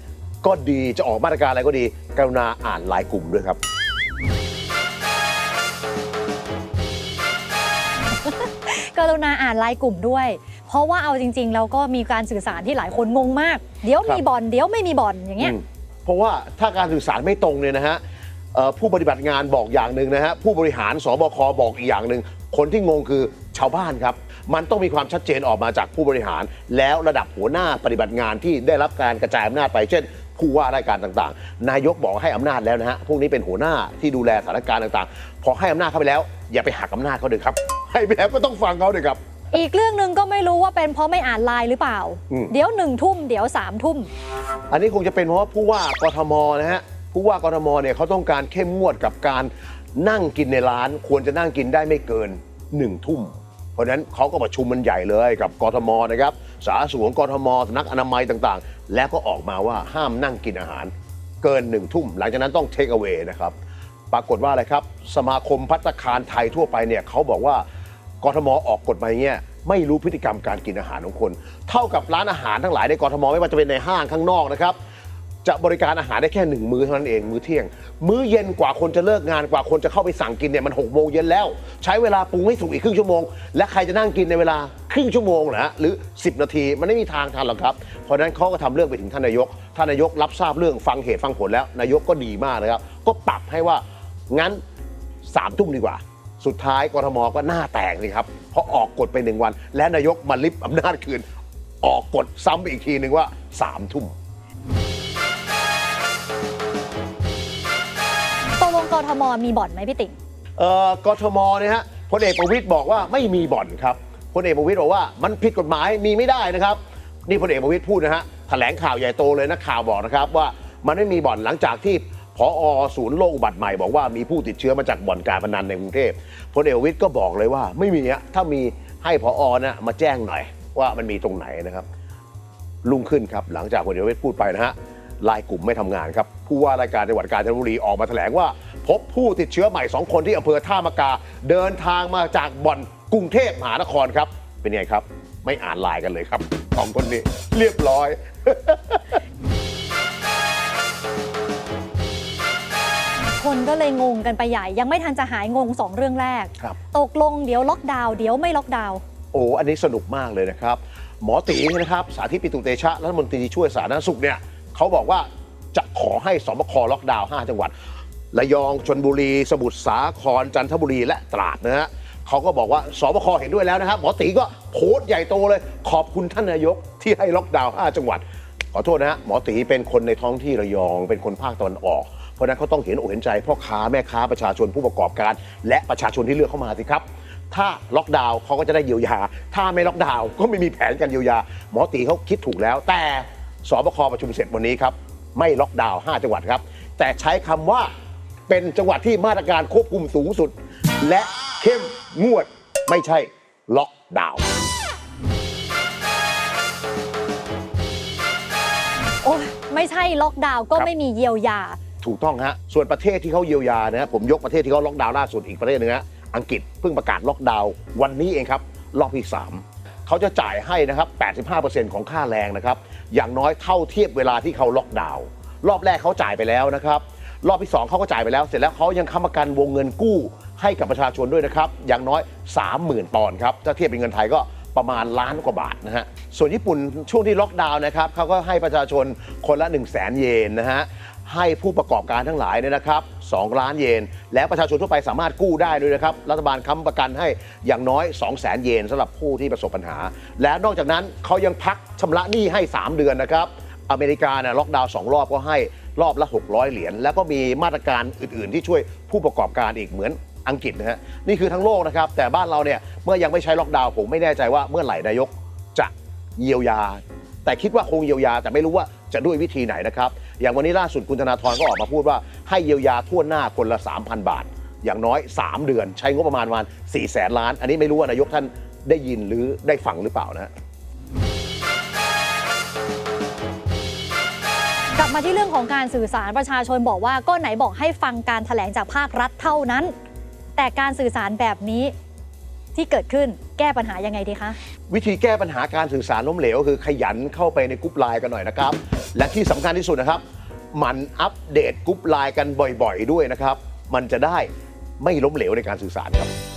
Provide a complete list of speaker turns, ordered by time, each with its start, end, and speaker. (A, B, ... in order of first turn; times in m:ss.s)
0:00.4-0:03.6 A
0:08.1-0:15.5 B
0:15.4-0:18.0 A
0:18.5-0:39.2 A
0:39.5-0:44.1 B
0:44.7-1:03.5 A
1:04.1-1:07.6 A
1:08.2-1:14.8 A
1:15.4-1:34.6 A
1:35.2-1:41.2 A
1:41.8-1:44.1 A
1:48.6-1:50.2 B
1:50.6-2:11.8 A
2:12.8-2:29.2 A
2:33.4-2:39.0 B
2:39.3-2:47.7 A
2:48.3-3:17.9 A
3:18.5-3:24.4 A
3:29.2-3:31.8 B
3:32.0-4:40.5 A
4:45.0-4:49.9 B
4:50.6-4:51.9 B
4:52.7-4:54.6 B
4:54.9-5:00.2 A
5:00.7-5:04.5 A
5:05.0-5:06.3 A